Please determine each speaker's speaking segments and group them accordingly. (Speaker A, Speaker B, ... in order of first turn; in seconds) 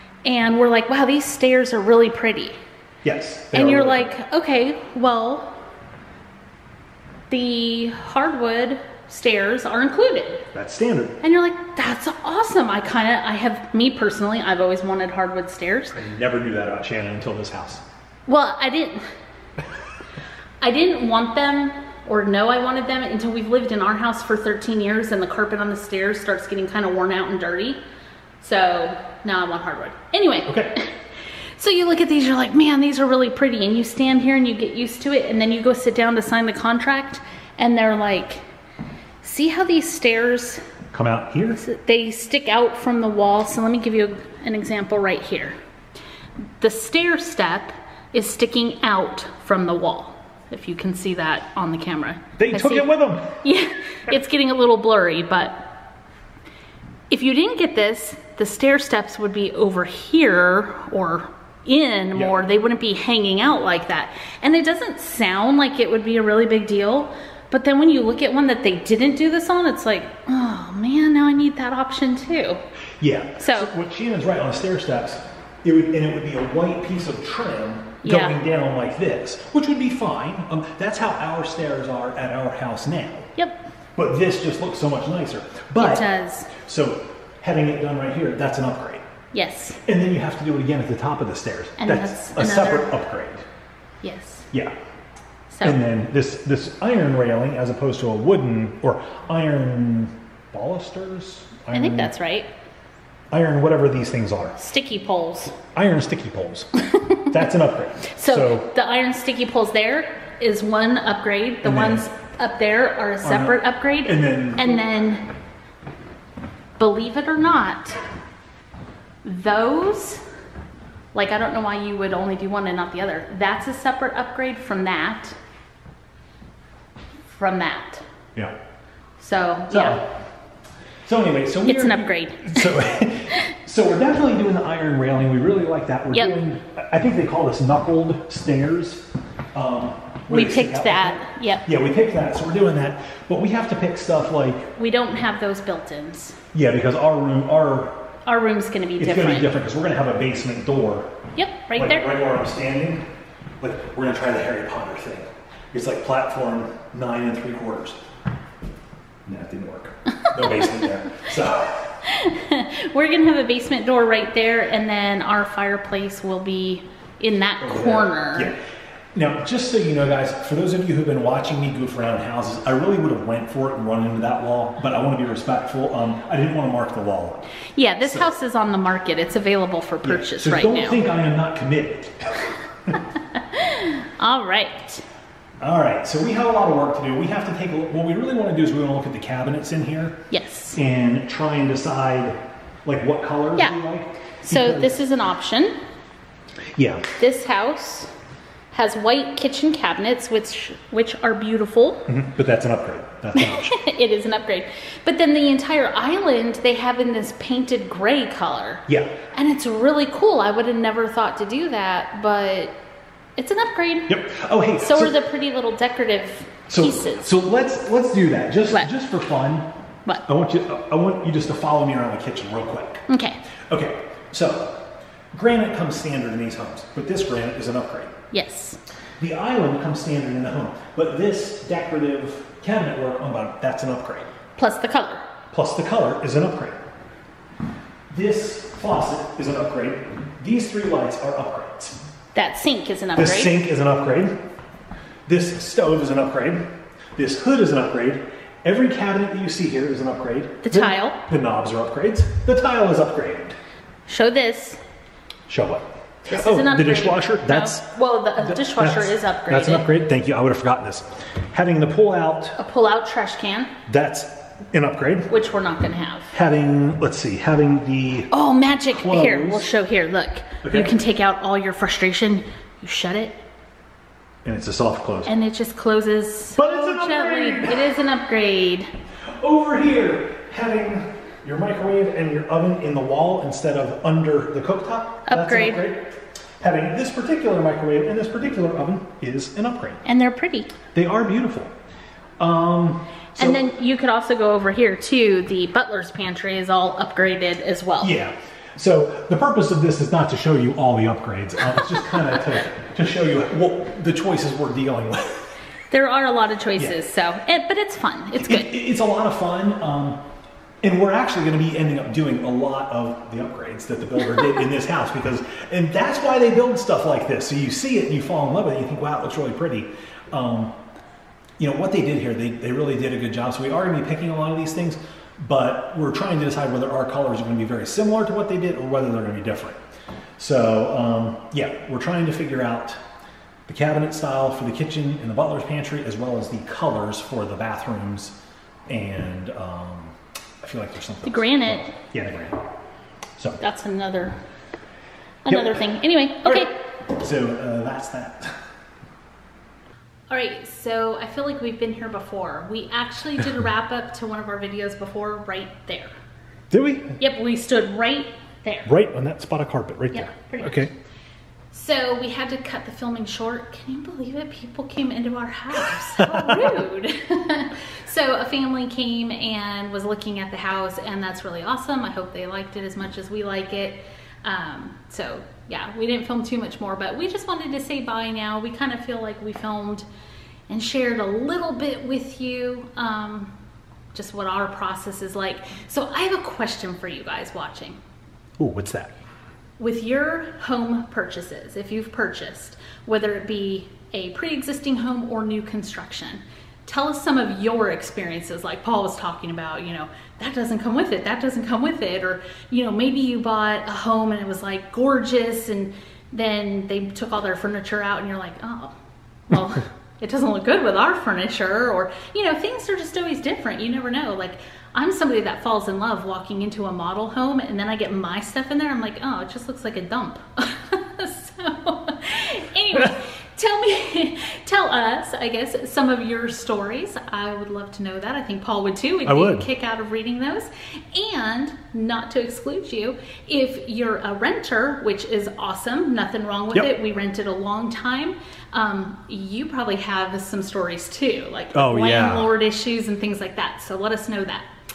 Speaker A: 0.2-2.6, 3.5-5.6, 7.3-10.4, 11.2-16.0, 18.3-19.0, 20.6-27.8, 28.4-30.9, 31.6-38.4, 39.2-40.6, 41.6-45.5, 46.6-52.9, 53.4-55.7, 57.1-72.6, 73.4-73.7, 78.0-78.4, 83.4-83.6, 85.8-86.5, 89.3-89.8, 91.8-92.9, 94.0-94.5, 95.5-95.8, 101.7-102.5, 104.6-105.6, 107.0-107.3, 108.1-115.3, 116.8-118.0, 119.2-120.2, 121.1-125.4, 127.3-128.0, 129.2-130.0, 131.6-132.7, 140.3-141.7, 144.8-146.4, 148.3-149.5, 151.4-152.1, 162.0-168.5, 177.8-181.0, 183.3-185.0, 190.3-190.8, 194.4-195.8, 197.2-198.1, 198.7-202.0, 203.3-212.7, 213.4-214.1, 214.8-217.3, 223.1-223.4, 228.3-228.8, 234.6-235.3, 242.3-243.6, 250.6-251.2, 254.1-254.8, 256.3-259.9, 262.6-263.7, 265.3-266.3, 268.3-273.4, 275.3-278.9, 285.3-285.9, 290.1-290.7, 293.4-298.2, 305.9-308.7, 341.2-341.9, 343.6-344.4, 345.5-346.7, 350.3-356.1, 357.2-358.9, 360.1-360.9, 361.7-380.1, 380.7-383.5, 384.1-388.0, 389.8-408.9, 409.5-444.7
Speaker B: 3.0-4.1, 10.5-11.2, 15.9-17.8, 30.5-30.8, 40.9-41.6, 52.4-53.4, 73.0-83.3, 84.0-86.1, 86.6-89.0, 89.8-93.4, 95.6-102.1, 103.3-104.6, 105.8-106.7, 107.3-108.7, 111.6-112.1, 113.2-114.8, 129.7-130.1, 131.1-144.7, 146.5-148.1, 149.0-151.1, 151.8-153.1, 153.6-158.0, 159.3-162.0, 167.6-168.6, 169.1-178.3, 180.0-182.6, 185.6-190.2, 190.8-195.0, 196.8-197.1, 202.1-203.8, 208.9-209.2, 214.1-215.2, 216.7-219.7, 220.2-223.1, 223.7-228.1, 229.2-234.3, 235.5-236.8, 238.1-242.0, 243.2-244.3, 245.3-253.6, 255.5-262.6, 263.9-265.3, 266.3-268.3, 268.9-269.7, 270.6-271.0, 274.4-275.3, 276.6-277.9, 279.4-290.0, 290.9-291.7, 292.4-293.6, 298.0-305.5, 308.4-310.2, 310.8-320.8, 321.6-329.8, 330.4-333.0, 333.7-338.4, 338.9-342.6, 345.5-345.8, 346.4-348.5, 356.7-357.2, 358.9-360.9, 365.9-366.7, 388.6-389.1, 429.3-429.7, 441.7-442.5